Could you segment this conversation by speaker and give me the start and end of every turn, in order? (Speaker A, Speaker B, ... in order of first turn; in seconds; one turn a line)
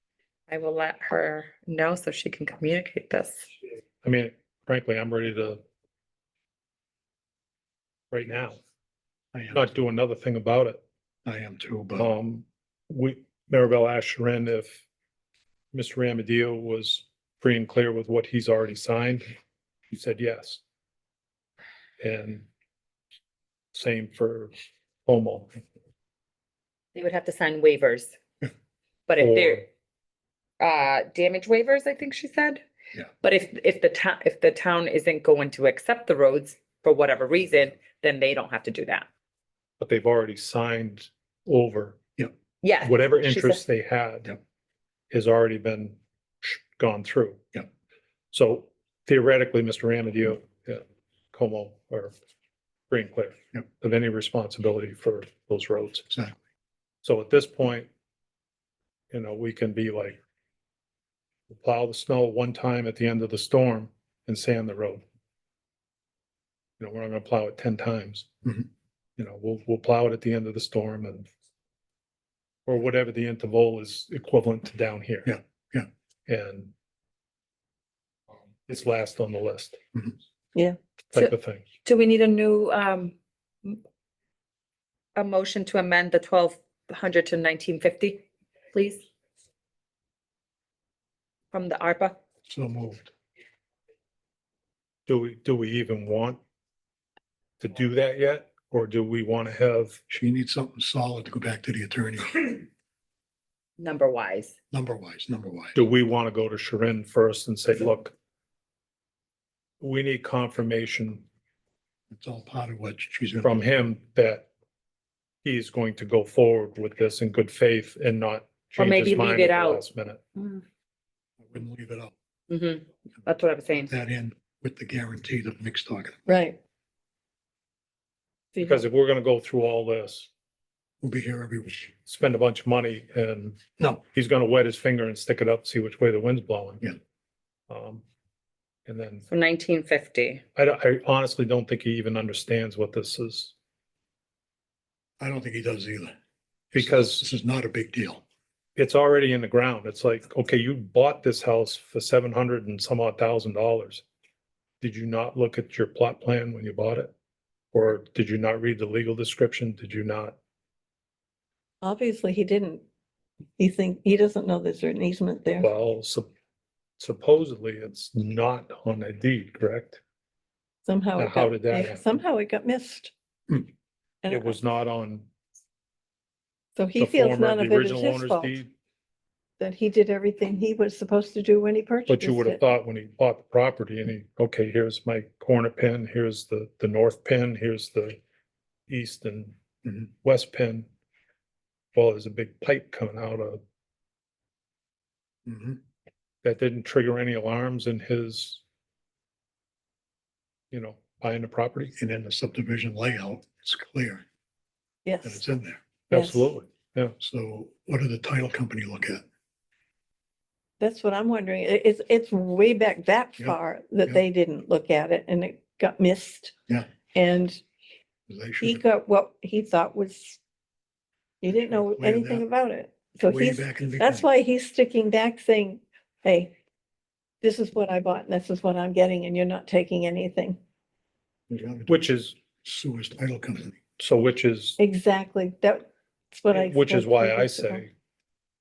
Speaker A: 0.5-3.5
Speaker B: 4.0-5.6
Speaker B: 8.1-8.6
Speaker C: 9.3-9.6
Speaker B: 9.5-10.8
Speaker C: 11.2-12.1
Speaker B: 12.0-14.8
Speaker B: 15.7-19.3
Speaker B: 19.9-20.6
Speaker B: 22.0-22.4
Speaker B: 23.7-24.5
Speaker B: 25.1-25.6
Speaker A: 26.9-28.1
Speaker A: 29.1-29.7
Speaker B: 29.2-29.6
Speaker A: 30.6-32.6
Speaker A: 33.2-39.0
Speaker B: 39.8-42.0
Speaker A: 42.6-43.6
Speaker B: 42.8-44.4
Speaker B: 45.1-47.4
Speaker B: 48.3-52.1
Speaker B: 52.9-56.1
Speaker C: 56.1-56.4
Speaker B: 57.0-57.9
Speaker B: 59.1-60.2
Speaker B: 61.5-65.0
Speaker B: 66.8-68.3
Speaker B: 69.2-71.3
Speaker B: 72.7-75.3
Speaker C: 75.2-75.9
Speaker B: 76.3-76.7
Speaker B: 78.7-79.8
Speaker B: 81.1-81.6
Speaker A: 81.8-83.8
Speaker A: 85.2-89.0
Speaker A: 91.5-92.1
Speaker C: 92.5-93.1
Speaker B: 95.1-96.4
Speaker B: 97.6-100.0
Speaker C: 100.1-102.7
Speaker A: 103.8-104.5
Speaker C: 104.7-105.8
Speaker B: 105.7-108.1
Speaker B: 109.8-111.2
Speaker C: 112.1-113.6
Speaker B: 113.4-114.5
Speaker B: 115.4-120.2
Speaker A: 118.8-119.8
Speaker A: 120.3-120.6
Speaker C: 121.4-122.1
Speaker A: 122.5-123.9
Speaker C: 123.9-126.2
Speaker D: 126.3-126.6
Speaker B: 128.6-130.3
Speaker C: 131.0-131.9
Speaker B: 132.1-133.6
Speaker B: 134.1-136.9
Speaker B: 137.7-138.0
Speaker B: 138.8-139.3
Speaker A: 139.3-140.4
Speaker B: 140.6-143.5
Speaker C: 145.2-146.1
Speaker B: 146.7-147.3
Speaker C: 146.7-148.2
Speaker B: 148.8-154.0
Speaker B: 154.8-157.1
Speaker B: 157.7-160.4
Speaker D: 161.8-162.8
Speaker D: 163.6-165.7
Speaker B: 165.6-166.3
Speaker B: 167.0-170.0
Speaker D: 170.8-173.1
Speaker B: 171.2-172.0
Speaker D: 174.2-174.6
Speaker B: 174.3-175.3
Speaker D: 176.8-178.5
Speaker B: 177.0-178.7
Speaker D: 179.6-182.6
Speaker B: 182.1-188.2
Speaker B: 188.9-189.5
Speaker B: 190.2-190.8
Speaker B: 191.9-193.6
Speaker C: 195.4-195.8
Speaker B: 196.4-198.6
Speaker B: 200.7-201.9
Speaker C: 201.9-204.2
Speaker D: 205.0-205.4
Speaker C: 205.2-205.8
Speaker B: 206.1-207.1
Speaker D: 206.1-206.5
Speaker C: 207.2-209.2
Speaker D: 210.8-216.5
Speaker C: 213.4-214.2
Speaker D: 217.1-217.6
Speaker C: 218.3-218.8
Speaker D: 218.6-220.4
Speaker D: 221.4-226.5
Speaker C: 221.5-222.4
Speaker C: 223.2-224.2
Speaker D: 227.4-230.6
Speaker C: 231.5-232.0
Speaker B: 231.9-232.3
Speaker C: 232.6-233.8
Speaker B: 234.0-234.8
Speaker D: 234.8-237.8
Speaker B: 236.5-237.9